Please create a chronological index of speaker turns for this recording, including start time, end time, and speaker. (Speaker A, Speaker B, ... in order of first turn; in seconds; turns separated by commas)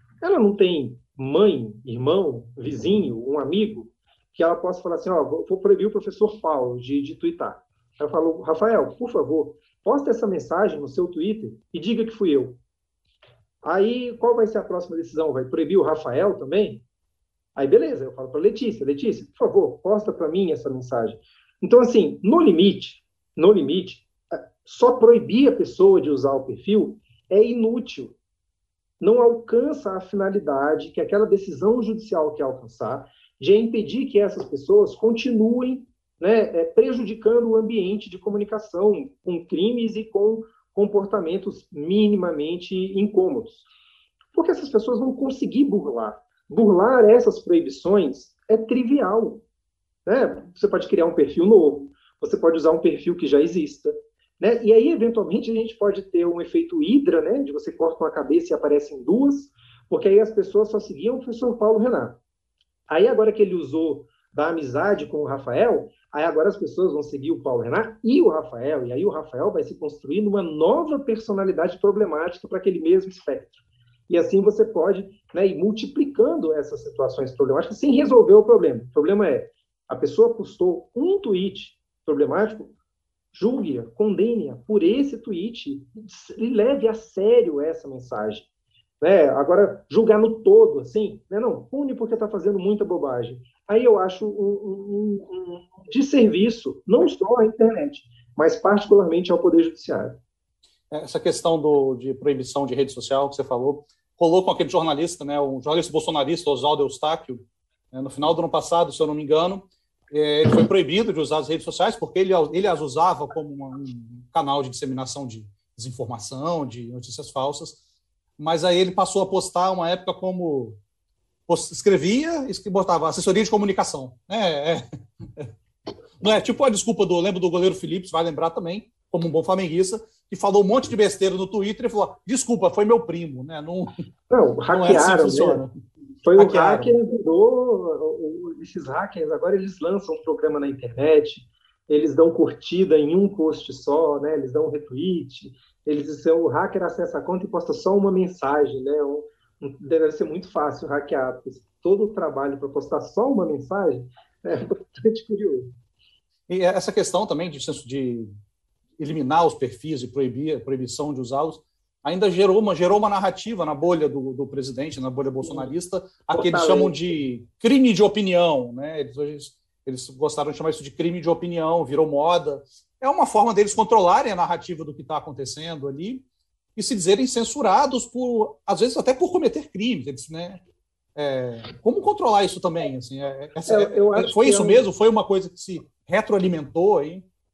Speaker A: 0.2-12.6, Speaker A: 13.6-16.8, Speaker A: 17.6-24.1, Speaker A: 24.6-28.1, Speaker A: 29.0-43.6, Speaker A: 44.3-49.4, Speaker A: 50.0-62.1, Speaker A: 62.9-73.5, Speaker A: 74.1-82.7, Speaker A: 83.3-88.5, Speaker A: 89.0-100.1, Speaker B: 100.9-117.8, Speaker B: 118.4-120.8, Speaker B: 121.5-124.8, Speaker B: 126.2-133.9, Speaker A: 134.3-135.6, Speaker B: 134.7-135.7, Speaker A: 136.2-155.7, Speaker B: 136.4-136.9, Speaker B: 156.5-158.3, Speaker B: 159.0-176.2, Speaker A: 165.4-165.7, Speaker A: 166.3-167.0, Speaker B: 176.8-180.6, Speaker B: 181.2-187.2, Speaker A: 183.7-184.9